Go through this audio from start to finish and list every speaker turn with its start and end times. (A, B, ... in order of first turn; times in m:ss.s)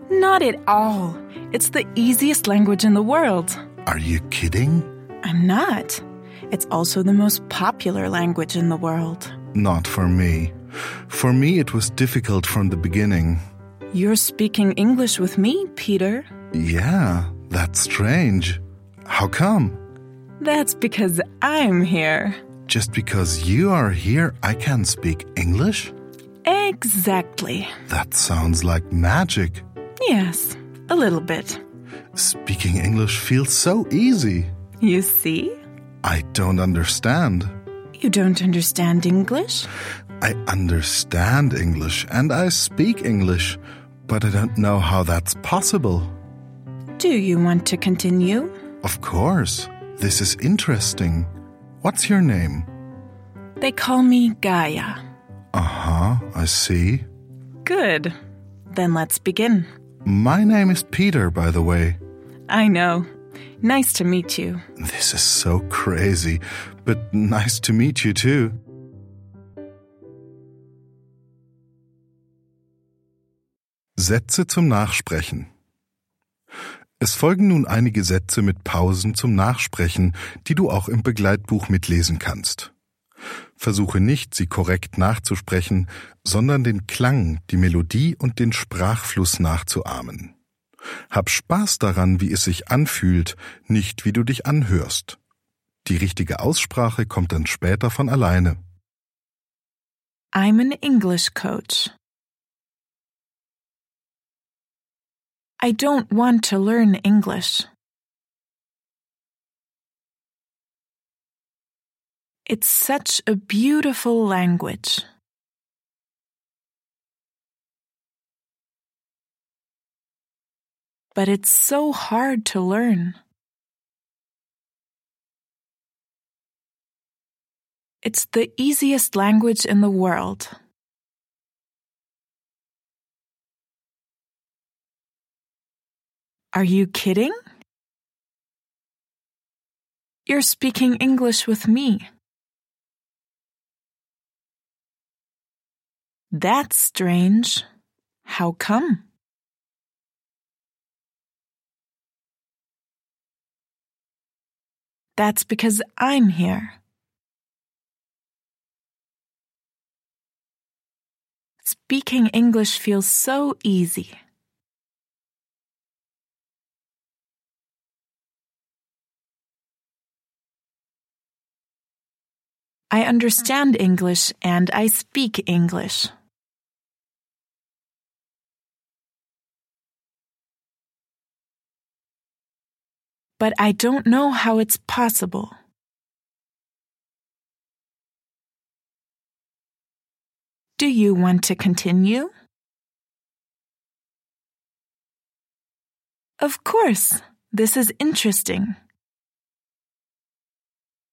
0:00.1-0:03.6 A
0:03.8-0:04.9 B
0:05.2-0:09.3 A
0:09.5-0:10.6 B
0:11.1-0:13.4 B
0:13.9-0:16.3 A
0:16.5-0:19.8 B
0:20.4-0:22.4 A
0:22.7-0:25.9 B
0:26.4-0:27.7 A
0:27.8-0:29.6 B
0:30.0-0:31.6 A
0:32.1-0:34.5 B
0:34.8-0:35.5 A
0:36.0-0:37.5 B
0:38.0-0:39.7 A
0:40.2-0:46.1 B
0:47.0-0:48.5 A
0:48.8-0:51.3 B
0:51.8-0:52.7 B
0:53.6-0:55.0 A
0:55.5-0:57.1 B
0:57.6-0:58.1 A
0:58.7-0:59.7 A
1:00.0-1:02.0 B
1:02.5-1:03.1 A
1:03.6-1:04.6 A
1:04.8-1:08.6 B
1:14.0-1:15.5 B
1:17.0-1:22.7 B
1:23.6-1:30.3 B
1:31.1-1:35.2 B
1:35.8-1:38.6 B
1:40.3-1:41.9 A
1:45.6-1:47.7 A
1:52.4-1:55.0 A
2:01.1-2:03.2 A
2:08.0-2:10.5 A
2:16.5-2:17.3 A
2:20.3-2:22.1 A
2:26.3-2:27.6 A
2:28.2-2:29.0 A
2:35.2-2:36.8 A
2:41.6-2:44.2 A
2:52.9-2:56.1 A
3:03.4-3:05.5 A
3:10.8-3:12.3 A
3:16.4-3:18.8 A